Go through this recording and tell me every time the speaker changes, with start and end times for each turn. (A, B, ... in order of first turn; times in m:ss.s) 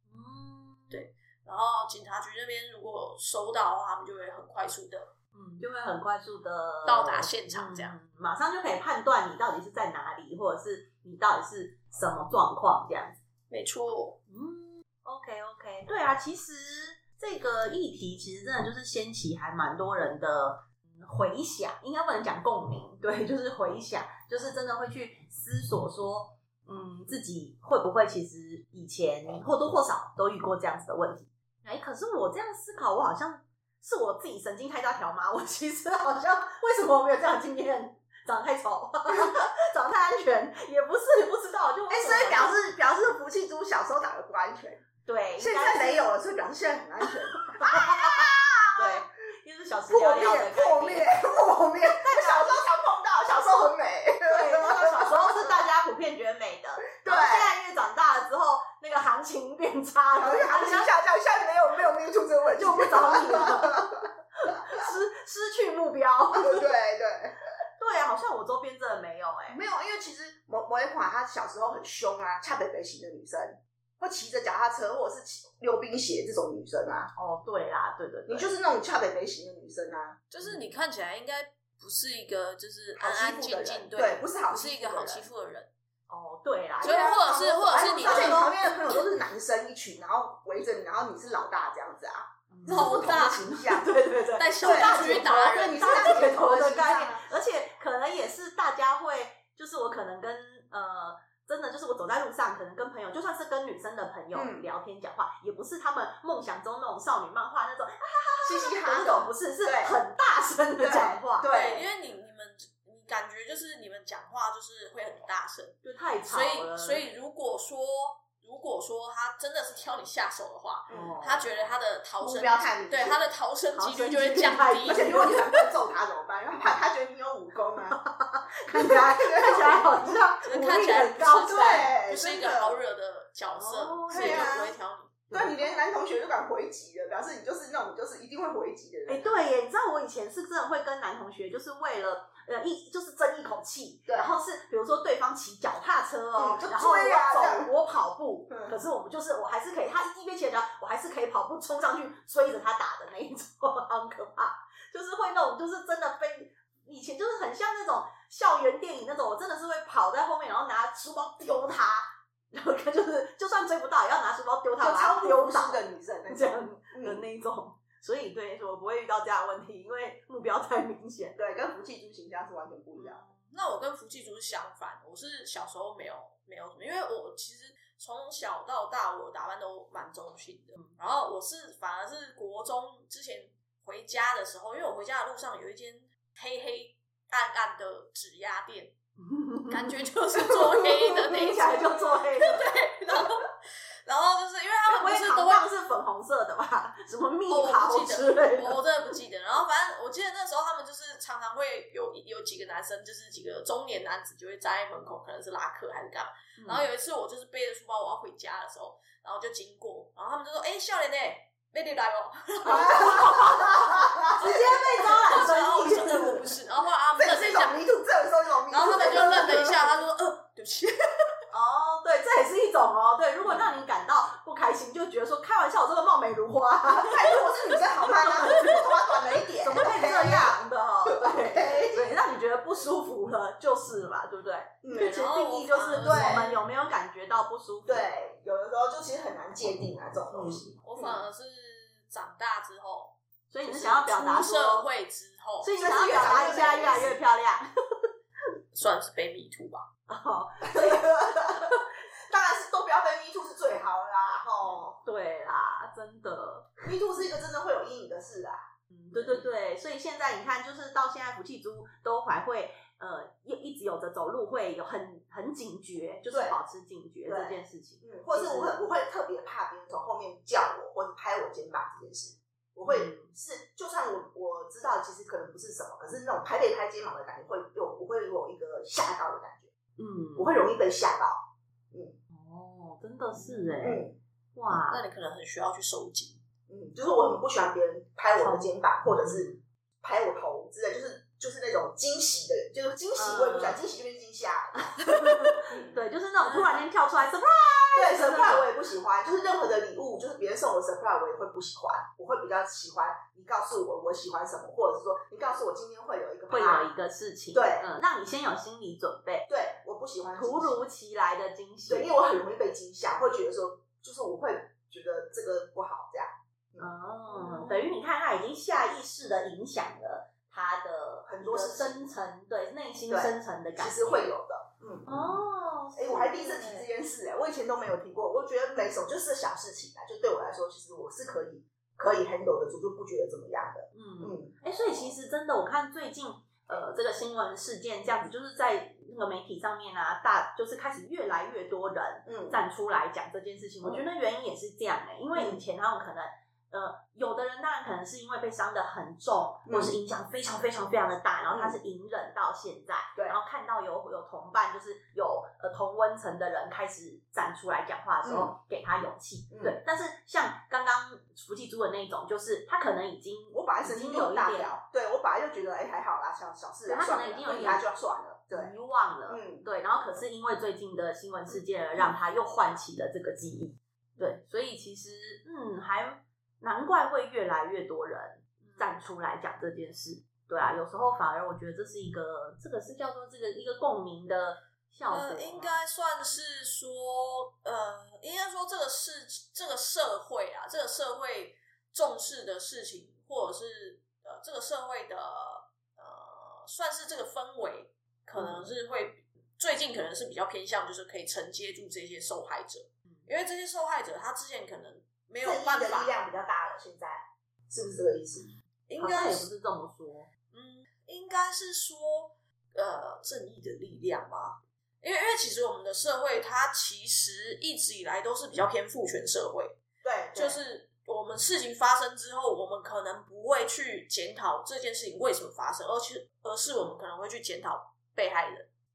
0:00.1-0:01.0 A
0:00.9-0:05.1 B
0:05.3-0:13.2 A
0:06.8-0:08.0 B
0:13.5-0:14.2 B
0:14.3-0:42.6 A
0:41.9-0:44.8 C
0:45.0-0:46.1 A
0:45.4-0:49.0 C
0:47.4-0:51.2 A
0:49.9-0:55.6 C
0:51.9-0:52.6 A
0:54.2-1:00.9 A
0:57.0-0:57.5 C
1:00.2-1:04.9 C
1:02.6-1:06.7 A
1:06.3-1:07.4 C
1:07.8-1:09.6 A
1:09.5-1:17.1 C
1:17.2-1:18.5 A
1:18.3-1:20.2 C
1:20.3-1:25.7 B
1:23.0-1:25.3 C
1:26.1-1:27.1 A
1:26.8-1:33.9 C
1:26.8-1:28.9 B
1:27.6-1:29.0 A
1:32.5-1:51.5 A
1:32.7-1:33.6 B
1:34.4-1:36.2 B
1:34.6-1:37.3 C
1:44.3-1:44.7 C
1:48.4-1:50.0 C
1:50.8-1:51.8 C
1:51.5-2:05.3 B
1:55.8-1:57.0 A
2:00.9-2:01.2 C
2:00.9-2:01.5 A
2:02.2-2:03.2 C
2:03.7-2:05.7 A
2:04.9-2:08.0 C
2:07.9-2:11.9 A
2:08.7-2:10.3 C
2:10.4-2:15.2 B
2:11.4-2:12.8 C
2:13.5-2:14.5 A
2:14.1-2:14.8 C
2:15.3-2:15.8 A
2:15.3-2:19.4 C
2:19.1-2:51.4 A
2:24.0-2:24.3 C
2:26.4-2:27.7 C
2:44.8-2:47.2 C
2:51.4-2:53.2 C
2:52.9-3:08.9 B
3:09.2-3:12.8 A
3:09.7-3:13.5 B
3:14.0-3:15.7 B
3:14.8-3:19.1 A
3:17.5-3:37.8 B
3:26.6-3:26.9 A
3:32.6-3:36.3 C
3:32.6-3:36.5 A
3:37.1-3:40.0 C
3:38.7-3:41.3 B
3:41.5-3:48.9 A
3:46.8-3:52.2 C
3:49.6-3:58.0 A
3:54.8-3:55.2 C
3:54.9-3:56.6 B
3:56.0-3:56.5 C
3:57.8-4:01.2 C
4:00.3-4:00.7 A
4:00.8-4:05.9 B
4:03.5-4:04.8 A
4:05.6-4:08.1 A
4:05.8-4:07.2 C
4:08.7-4:09.9 B
4:10.1-4:11.8 A
4:10.6-4:14.8 C
4:14.6-4:16.8 A
4:16.8-4:19.4 C
4:18.9-4:28.8 A
4:26.3-4:26.6 C
4:27.2-4:39.7 C
4:32.8-4:33.3 A
4:40.0-4:40.6 A
4:40.4-4:42.2 C
4:42.3-4:45.0 A
4:43.8-4:44.2 C
4:44.7-4:46.4 B
4:46.7-4:56.0 C
4:48.4-4:49.6 A
4:53.2-4:53.8 A
4:54.9-4:58.7 A
4:56.4-4:56.8 B
4:57.9-5:06.9 C
5:06.5-5:09.5 A
5:07.5-5:07.9 C
5:09.5-5:10.8 C
5:10.4-5:12.1 A
5:11.9-5:17.8 C
5:16.8-5:24.2 A
5:21.2-5:22.0 C
5:23.1-5:25.3 C
5:25.0-5:26.9 A
5:25.9-5:35.1 C
5:33.9-6:04.7 A
5:42.2-5:42.6 C
5:45.3-5:45.6 C
5:49.7-5:49.9 C
5:51.5-5:51.8 C
5:58.2-5:58.5 C
5:59.5-5:59.8 C
6:03.5-6:08.7 C
6:06.8-6:07.8 A
6:08.5-6:25.8 A
6:09.3-6:09.7 C
6:25.1-6:46.2 B
6:45.4-6:48.5 C
6:48.9-6:49.5 B
6:49.0-6:50.3 A
6:50.5-6:59.8 B
7:00.0-7:00.6 C
7:00.3-7:08.7 B